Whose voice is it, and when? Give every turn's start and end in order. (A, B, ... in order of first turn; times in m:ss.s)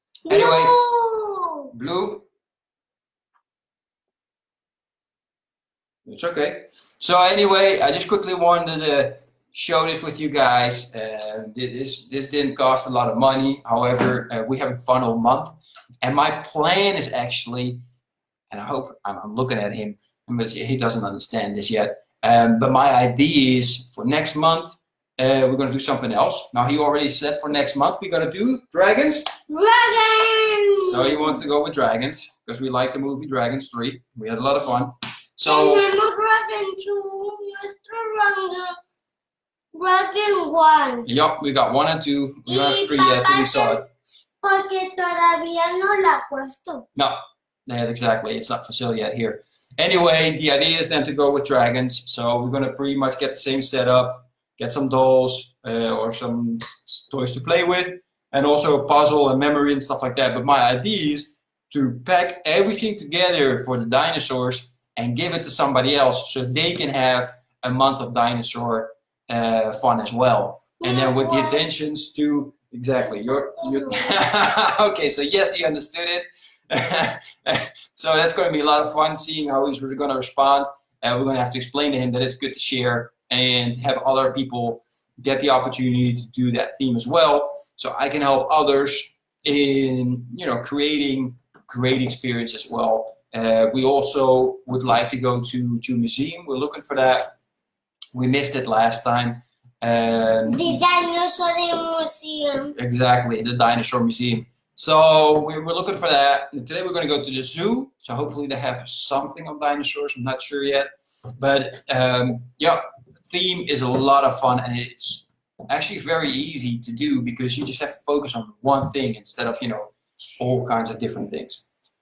0:00.3-0:01.7 A
0:00.3-0:00.8 B
0:01.7-0:02.3 B
0:06.1-0:17.8 B
0:18.5-0:29.3 B
0:29.5-0:31.4 A
0:30.8-0:35.9 B
0:35.4-0:38.8 A
0:39.7-0:41.1 A
0:41.0-0:43.8 B
0:42.5-0:43.8 A
0:44.4-0:46.9 A
0:47.0-1:37.3 B
1:10.8-1:11.6 A
1:13.0-1:14.2 A
1:38.1-1:41.4 B
1:40.5-1:42.8 A
1:42.8-2:01.6 B